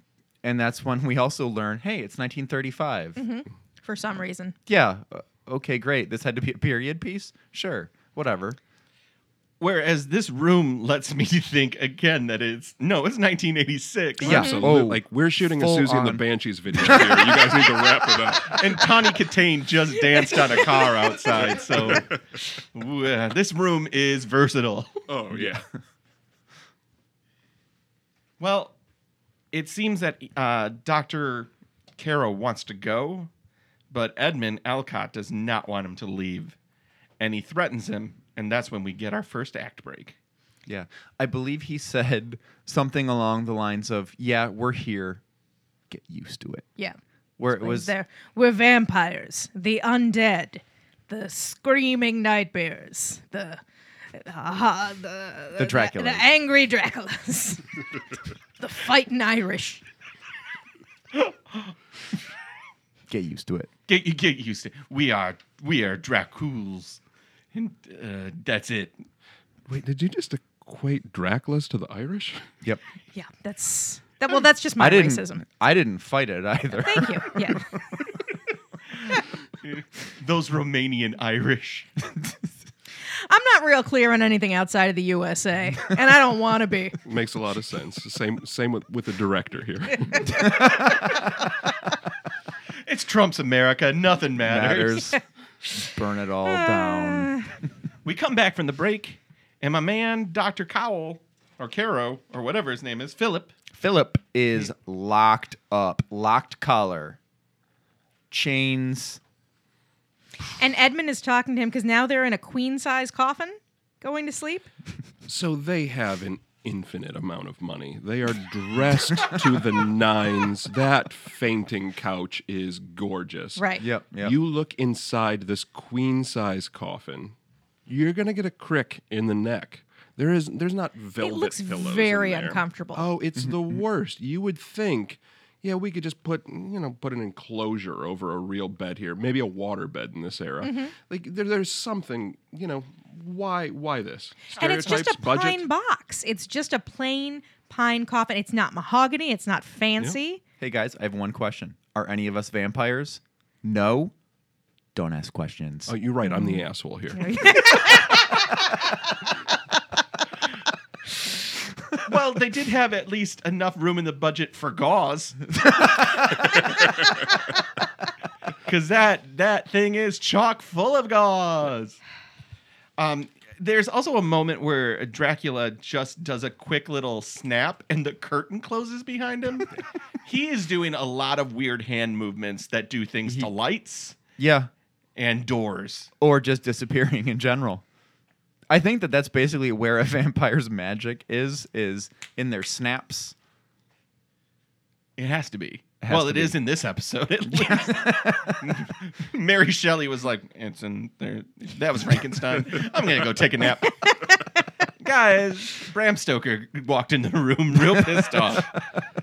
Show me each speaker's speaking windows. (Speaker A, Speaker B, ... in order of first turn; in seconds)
Speaker A: 0.4-3.2, 4.7-8.6, 14.2-16.2, 16.8-17.6, 25.3-25.6, 40.7-45.2, 45.9-46.7, 47.4-47.9, 55.6-56.3, 63.1-63.7, 74.8-77.6, 90.2-91.3, 94.4-95.2, 95.8-97.3, 103.7-107.2, 108.3-109.2, 123.8-124.3, 150.6-154.1, 154.9-155.9, 184.4-184.7, 186.2-187.8, 188.7-193.3, 196.0-196.6, 197.5-198.8
Speaker B: 3.2-4.6, 14.2-14.7, 47.5-53.6, 54.1-57.7, 58.6-59.8, 73.1-75.4, 76.8-77.7, 83.3-87.0, 90.1-90.4, 96.5-97.5, 110.6-114.7, 123.6-123.8, 131.2-133.1, 140.6-140.9, 144.6-150.4, 156.3-158.3
Speaker C: 9.6-14.4, 18.4-22.1, 22.7-25.0, 28.4-28.8, 29.5-33.3, 33.9-36.6, 37.2-40.2, 61.1-61.7, 63.9-67.0, 67.5-69.0, 79.6-81.9, 92.9-95.1, 98.0-103.5, 162.0-165.6, 168.7-172.0, 173.0-179.7, 180.2-184.2, 185.2-186.1, 195.2-204.3, 204.9-208.7
Speaker D: 14.2-18.9, 21.4-22.2, 25.1-25.6, 69.7-72.5, 87.0-90.5, 115.3-123.7, 124.2-127.3, 127.9-145.6, 155.9-157.8